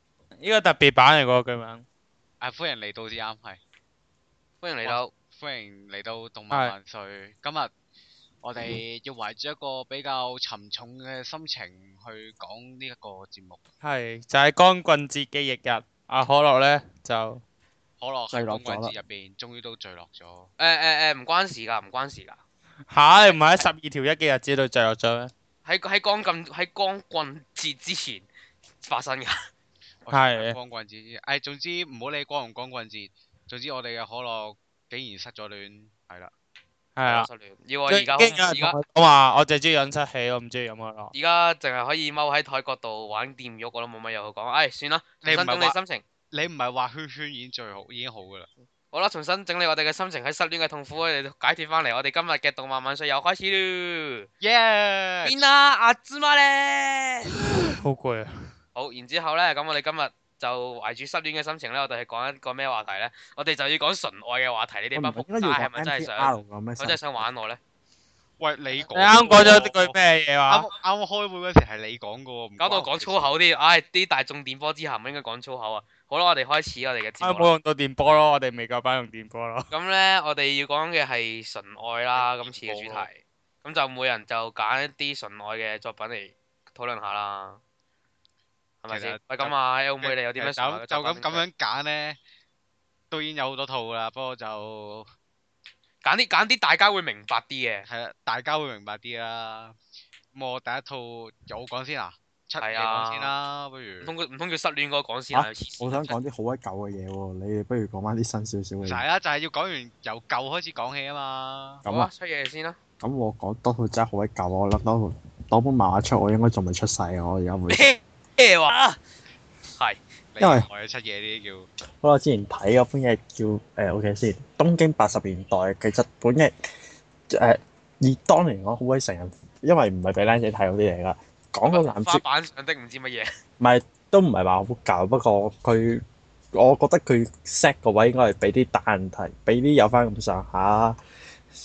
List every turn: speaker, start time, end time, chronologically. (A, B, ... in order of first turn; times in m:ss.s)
0:00.4-0:01.8 A
0:02.4-0:03.6 B
0:04.6-0:05.1 C
0:04.8-0:07.7 B
0:08.4-0:13.6 B
0:13.8-0:17.4 A
0:18.0-0:20.5 B
0:18.3-0:18.7 A
0:18.6-0:18.9 D
0:20.6-0:22.4 C
0:22.9-0:25.3 A
0:23.3-0:23.6 C
0:25.6-0:28.3 C
0:28.8-0:29.4 C
0:30.0-0:36.3 B
0:30.1-0:30.6 A
0:37.0-0:37.3 A
0:37.0-0:38.8 C
0:37.9-0:41.1 A
0:41.1-0:46.0 C
0:45.2-0:45.8 B
0:46.3-0:48.5 B
0:48.9-0:54.3 C
0:54.4-0:55.5 B
0:55.2-0:57.4 C
0:57.5-0:58.3 A
0:58.8-1:07.6 C
1:05.0-1:07.2 D
1:08.4-1:09.9 B
1:08.9-1:10.7 A
1:10.5-1:13.3 B
1:12.6-1:17.5 C
1:17.2-1:19.7 A
1:19.7-1:27.6 C
1:22.2-1:23.1 B
1:28.8-1:31.4 C
1:28.9-1:32.2 B
1:33.1-1:35.1 B
1:36.0-1:37.9 C
1:37.9-1:39.8 B
1:40.3-1:44.1 B
1:42.6-1:43.3 C
1:44.0-1:46.2 C
1:45.3-1:49.0 D
1:48.8-1:51.8 B
1:51.9-1:52.8 C
1:53.0-1:57.9 D
1:57.7-1:59.0 C
2:00.3-2:01.7 B
2:00.4-2:00.7 D
2:02.0-2:06.5 D
2:07.3-2:12.2 D
2:11.7-2:13.3 C
2:13.6-2:16.0 D
2:16.5-2:21.0 D